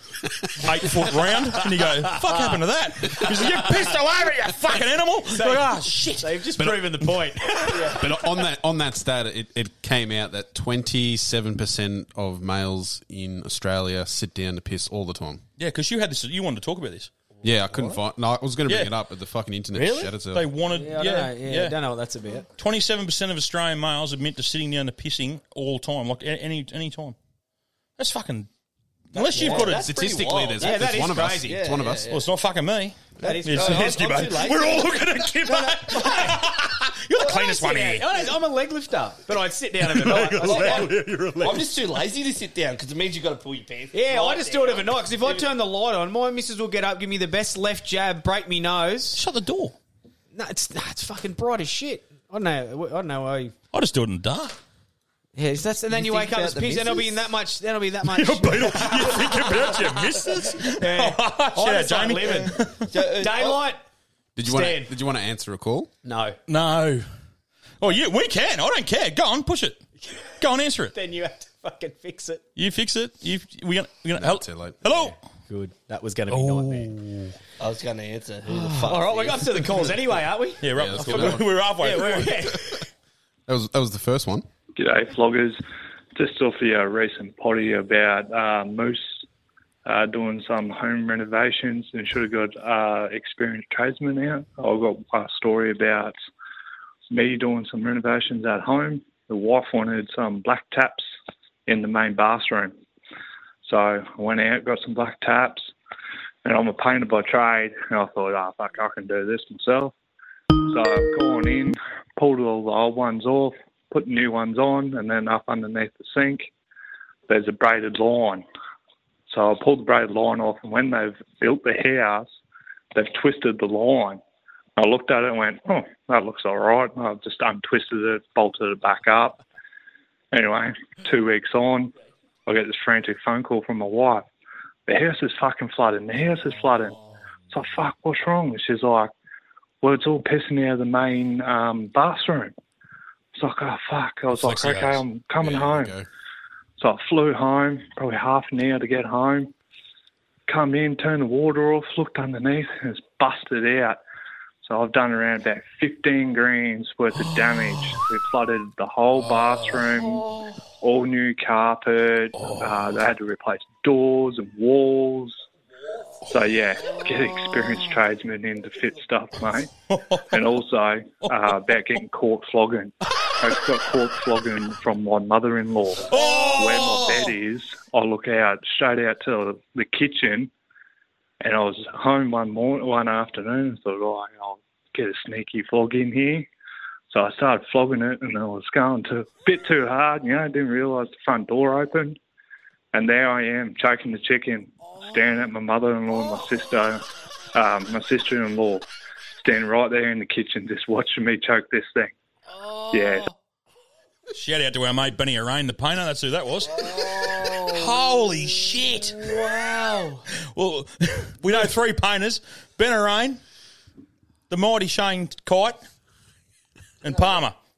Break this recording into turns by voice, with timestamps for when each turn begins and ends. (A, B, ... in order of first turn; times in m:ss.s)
0:00.5-0:06.4 A
0:02.3-0:02.6 B
0:03.1-0:03.6 B
0:05.3-0:08.0 B
0:06.6-0:07.1 C
0:08.0-0:15.4 C
0:15.6-0:17.1 A
0:17.4-0:20.4 C
0:18.7-0:18.9 A
0:19.7-0:20.1 B
0:20.3-0:21.8 A
0:20.7-0:22.4 B
0:22.6-0:27.2 A
0:28.0-0:28.5 A
0:29.1-0:30.1 A
0:29.1-0:30.8 D
0:29.4-0:32.0 C
0:30.6-0:31.6 B
0:31.4-0:32.3 D
0:32.1-0:38.1 A
0:33.2-0:36.4 D
0:33.2-0:34.0 B
0:36.0-0:36.3 B
0:37.2-0:40.8 B
0:39.8-0:41.9 A
0:40.4-0:45.5 D
0:43.9-0:49.2 B
0:49.2-0:49.8 A
0:50.3-0:53.5 B
0:53.7-0:54.6 A
0:55.4-0:59.7 B
0:55.9-0:57.2 D
0:58.1-1:02.9 A
1:00.8-1:02.6 B
1:02.8-1:03.6 D
1:03.2-1:03.8 B
1:04.4-1:05.9 C
1:04.4-1:04.9 B
1:06.0-1:06.4 B
1:06.5-1:07.0 A
1:07.8-1:09.8 A
1:10.4-1:10.9 A
1:10.9-1:12.4 B
1:12.6-1:15.1 A
1:14.2-1:14.8 C
1:15.5-1:17.0 B
1:16.3-1:17.3 A
1:17.6-1:19.6 D
1:18.5-1:22.8 B
1:20.6-1:22.3 A
1:20.7-1:21.5 C
1:23.5-1:24.4 C
1:24.8-1:25.6 E
1:26.1-1:29.2 E
1:29.8-1:36.1 E
1:37.1-1:41.1 E
1:41.7-1:42.7 E
1:43.6-1:45.7 E
1:46.4-1:49.9 E
1:50.7-1:56.5 E
1:57.3-1:58.4 E
1:59.3-2:02.3 E
2:02.9-2:04.2 E
2:04.8-2:09.4 E
2:10.3-2:11.9 E
2:12.4-2:14.3 E
2:14.9-2:17.0 E
2:17.5-2:19.1 E
2:19.8-2:22.5 E
2:23.3-2:25.9 E
2:24.3-2:25.0 A
2:25.4-2:26.1 C
2:26.8-2:29.5 E
2:30.5-2:34.0 E
2:34.6-2:40.2 E
2:37.2-2:38.0 A
2:39.2-2:40.2 A
2:40.8-2:45.4 E
2:42.3-2:42.8 A
2:46.3-2:49.7 E
2:46.9-2:47.9 A
2:49.9-2:50.4 A
2:50.3-3:00.5 E
2:56.1-2:57.3 A
3:01.4-3:06.5 E
3:07.1-3:12.2 E
3:12.9-3:17.0 E
3:17.5-3:22.1 E
3:22.5-3:23.3 B
3:22.9-3:23.3 E
3:24.3-3:26.9 A
3:26.7-3:27.8 B
3:27.7-3:29.3 A
3:29.0-3:30.2 B
3:30.5-3:33.4 A
3:34.5-3:35.8 A
3:37.0-3:37.6 A
3:37.1-3:37.4 D